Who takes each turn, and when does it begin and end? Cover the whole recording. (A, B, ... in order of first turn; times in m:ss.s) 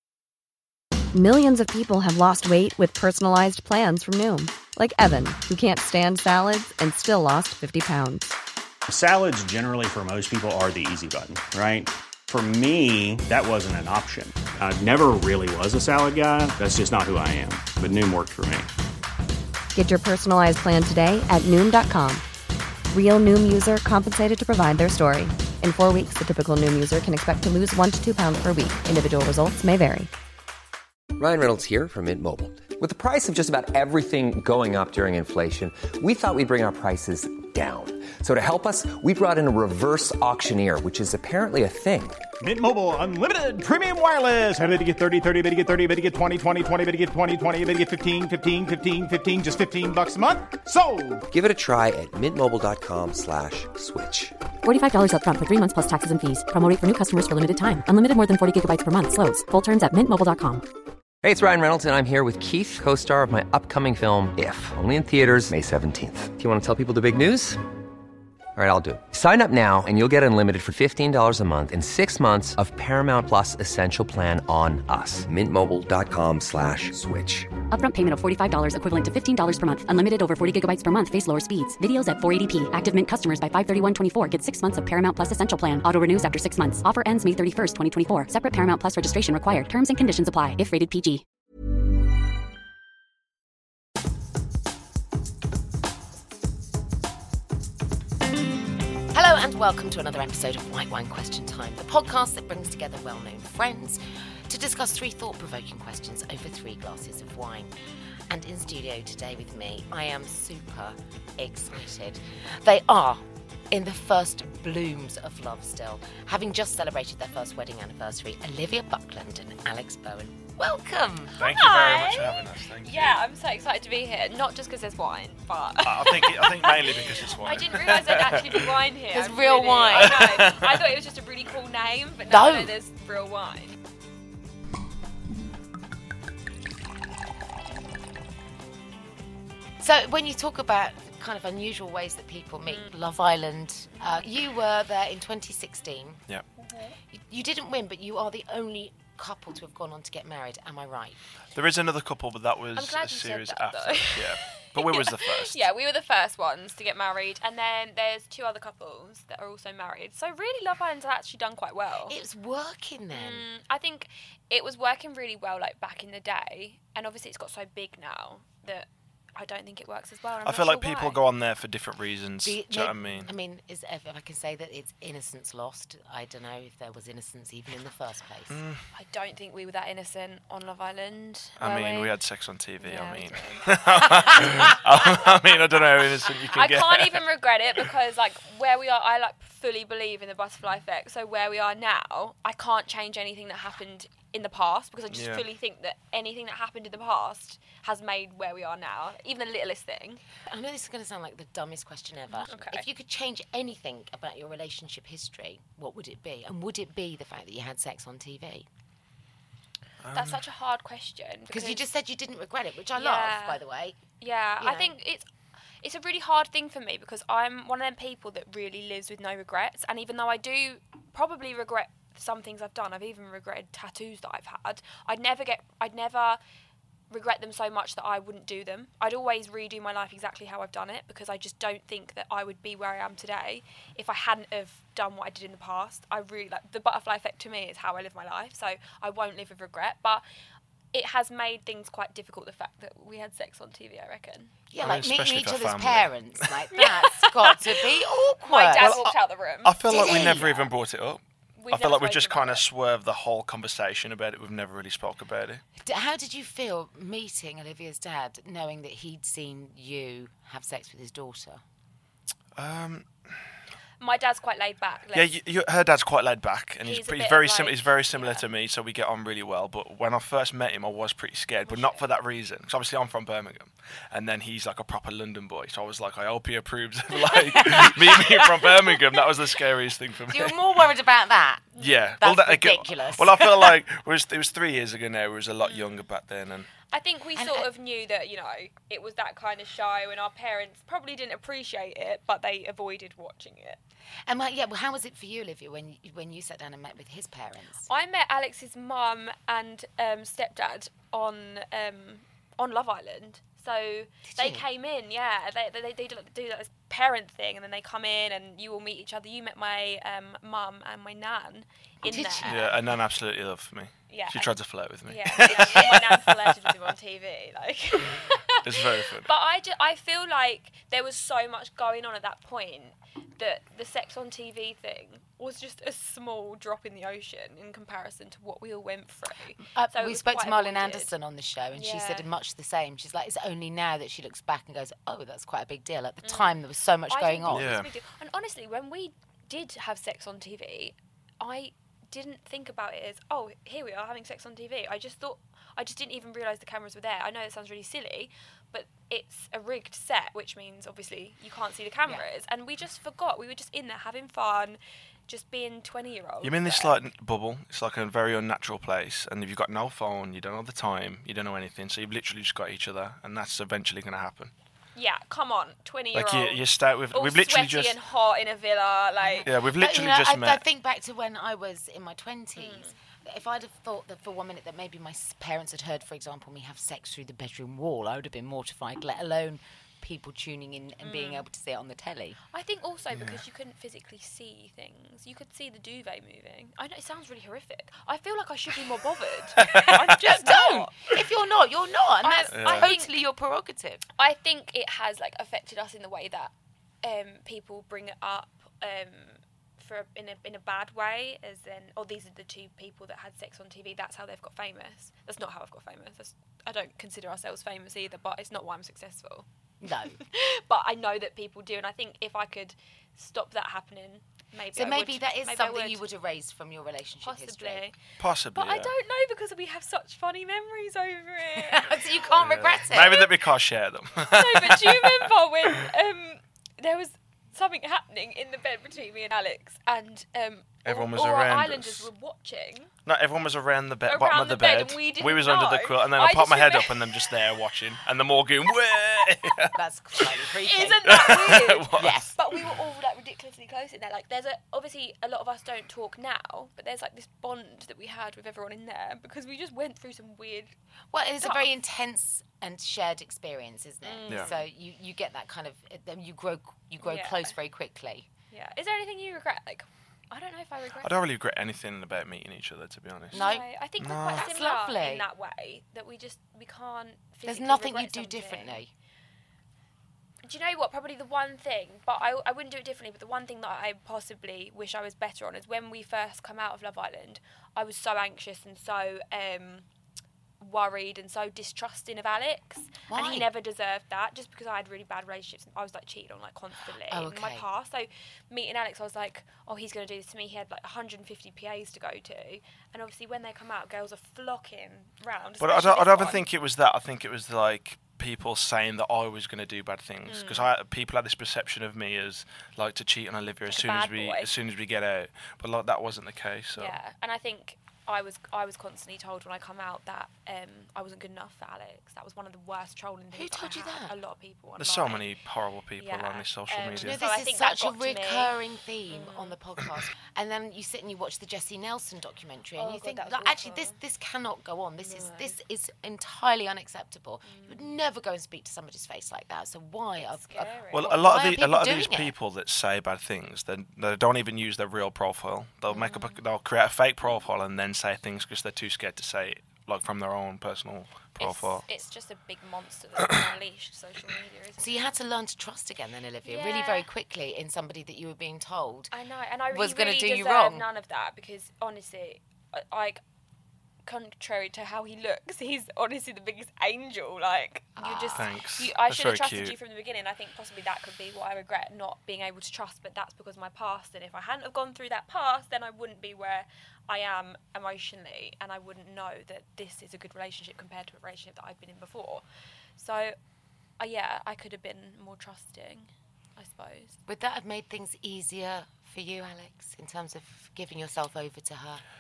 0:01.1-0:08.4 A
0:08.9-0:18.7 B
0:19.7-0:22.2 A
0:22.9-0:30.1 A
0:31.2-0:42.2 C
0:42.4-0:51.2 D
0:51.3-0:54.4 C
0:54.6-1:00.6 E
1:01.2-1:07.6 C
1:08.6-1:17.5 C
1:17.7-1:31.2 E
1:39.1-1:47.8 F
1:48.3-2:01.4 F
2:01.4-2:03.2 G
2:01.4-2:13.8 H
2:05.8-2:08.6 G
2:09.1-2:10.4 F
2:09.9-2:10.9 G
2:12.3-2:12.7 F
2:19.8-2:26.2 F
2:22.7-2:23.0 H
2:24.0-2:24.2 H
2:26.6-2:27.0 H
2:27.1-2:31.2 F
2:31.6-2:35.6 G
2:32.8-2:42.2 H
2:42.1-2:43.4 F
2:43.1-2:51.2 H
2:50.4-2:53.3 G
2:52.4-2:58.6 F
2:53.0-2:53.3 H
2:58.5-2:58.8 G
2:58.9-3:02.2 H
3:01.6-3:07.2 G
3:02.8-3:04.4 H
3:04.2-3:04.7 F
3:06.5-3:20.2 H
3:15.1-3:15.4 G
3:20.5-3:28.7 F
3:22.4-3:22.9 H
3:30.0-3:30.4 G
3:30.1-3:31.8 H
3:31.5-3:34.0 F
3:33.0-3:33.6 H
3:34.2-3:35.3 H
3:34.6-3:34.9 F
3:35.8-3:46.4 H
3:47.1-4:00.2 H
4:00.9-4:04.5 H
4:04.7-4:09.0 F
4:04.8-4:06.5 G
4:06.7-4:07.7 H
4:08.4-4:10.4 H
4:08.8-4:11.2 G
4:09.9-4:10.7 F
4:11.6-4:12.6 H
4:11.7-4:15.6 G
4:15.8-4:21.6 F
4:22.6-4:23.1 G
4:24.0-4:25.4 H
4:25.1-4:40.6 G
4:26.8-4:28.5 H
4:31.6-4:32.0 H
4:37.3-4:37.9 H
4:37.5-4:38.9 F
4:40.3-4:43.8 F
4:41.8-4:42.0 H
4:41.8-4:46.7 G
4:45.6-4:45.9 H
4:46.9-4:53.8 H
4:47.4-4:47.7 F
4:54.3-4:57.9 F
4:57.9-5:12.6 H
5:04.2-5:04.6 F
5:12.0-5:12.8 F
5:12.5-5:16.6 G
5:14.1-5:14.5 H
5:15.1-5:31.1 H
5:18.6-5:19.3 G
5:29.6-5:37.8 F
5:31.7-5:32.3 H
5:36.2-5:56.9 H
5:37.5-5:37.9 G
5:56.4-6:04.5 G
6:05.0-6:06.6 H
6:06.1-6:08.0 G
6:07.1-6:09.5 H
6:09.2-6:22.4 F
6:09.5-6:10.6 G
6:12.6-6:13.0 H
6:21.0-6:21.5 H
6:22.5-6:31.2 H
6:29.6-6:34.0 F
6:32.2-6:33.1 H
6:32.5-6:32.9 G
6:34.2-6:49.5 H
6:49.8-6:50.2 F
6:50.2-6:56.0 H
6:54.7-6:57.9 F
6:57.2-6:58.0 H
6:58.2-6:58.9 G
6:58.6-7:02.0 H
7:01.6-7:03.3 F
7:02.4-7:05.3 G
7:04.3-7:12.9 H
7:10.8-7:12.1 G
7:13.1-7:19.8 G
7:14.1-7:17.3 H
7:19.7-7:22.4 F
7:20.6-7:30.8 H
7:21.1-7:22.3 G
7:31.1-7:38.3 F
7:31.4-7:31.7 H
7:34.0-7:34.6 H
7:37.0-7:37.6 H
7:38.5-7:41.2 H
7:41.0-7:43.4 G
7:43.3-7:43.7 F
7:43.3-7:48.8 H
7:44.0-7:44.5 G
7:44.3-7:45.3 F
7:47.5-7:48.9 F
7:50.4-7:59.9 H
8:00.6-8:16.4 H
8:03.1-8:03.5 F
8:07.1-8:07.7 F
8:15.6-8:27.0 G
8:20.3-8:20.7 H
8:23.7-8:24.5 H
8:26.8-8:35.3 H
8:33.3-8:34.2 F
8:34.8-8:37.2 G
8:36.0-8:38.6 H
8:37.0-8:52.3 F
8:39.1-8:39.6 H
8:42.8-8:44.0 H
8:45.0-8:45.6 H
8:47.4-8:48.0 H
8:50.2-8:51.5 H
8:50.9-9:01.8 G
8:55.9-8:56.4 H
9:01.4-9:05.1 H
9:04.8-9:09.1 F
9:06.4-9:07.1 H
9:09.1-9:13.2 H
9:09.7-9:10.9 F
9:14.0-9:32.4 H
9:18.0-9:18.5 F
9:18.4-9:19.8 G
9:33.0-9:33.4 H
9:34.0-9:37.2 H
9:37.3-9:42.0 F